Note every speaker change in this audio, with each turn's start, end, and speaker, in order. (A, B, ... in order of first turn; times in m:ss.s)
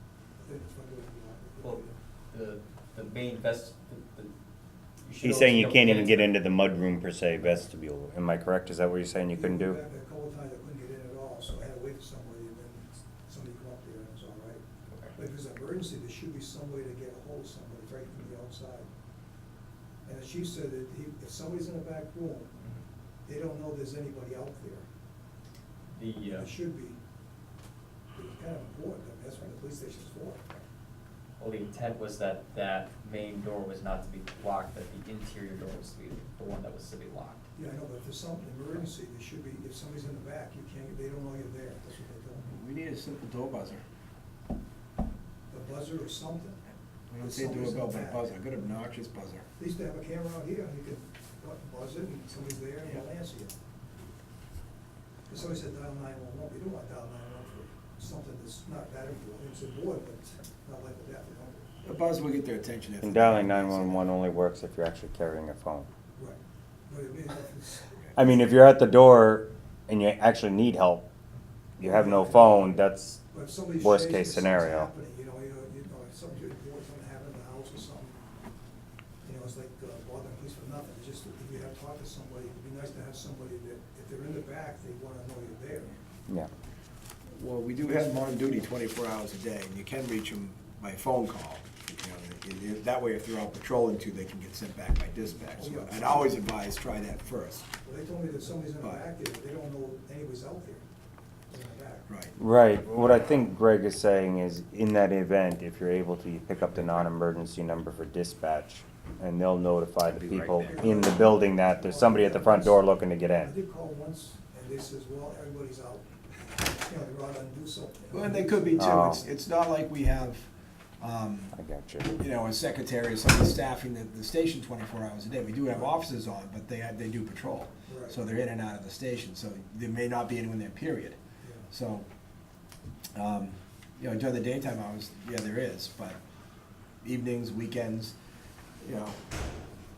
0:00.4-0:01.9 A
0:01.6-0:04.3 B
0:05.0-0:06.4 B
0:05.2-0:09.8 C
0:09.3-0:14.6 A
0:15.1-0:18.9 A
0:20.0-0:22.6 A
0:23.2-0:24.8 A
0:25.9-0:26.5 B
0:26.3-0:27.0 A
0:28.1-0:30.4 A
0:31.4-0:37.4 B
0:37.6-0:42.5 A
0:42.4-0:43.8 D
0:45.5-0:46.6 A
0:47.1-0:49.4 D
0:47.2-0:48.3 A
0:49.6-0:53.6 A
0:55.3-1:01.7 A
1:01.8-1:04.0 D
1:03.0-1:05.9 C
1:06.1-1:07.9 A
1:08.1-1:11.0 C
1:11.8-1:13.2 C
1:11.8-1:12.8 A
1:13.3-1:18.2 A
1:13.8-1:14.9 C
1:19.2-1:25.9 A
1:27.3-1:37.7 D
1:27.8-1:28.7 A
1:35.6-1:36.3 A
1:37.8-1:40.8 A
1:41.5-1:42.0 A
1:42.1-1:42.3 D
1:42.4-1:53.5 C
1:50.2-1:51.0 D
1:50.6-1:52.8 A
1:53.4-1:59.2 A
1:58.1-2:00.4 D
1:58.8-1:59.2 C
2:01.0-2:11.2 D
2:01.5-2:02.1 C
2:07.9-2:08.2 A
2:11.4-2:11.7 A
2:11.7-2:12.0 D
2:13.1-2:16.2 D
2:17.0-2:18.1 D
2:18.8-2:19.2 D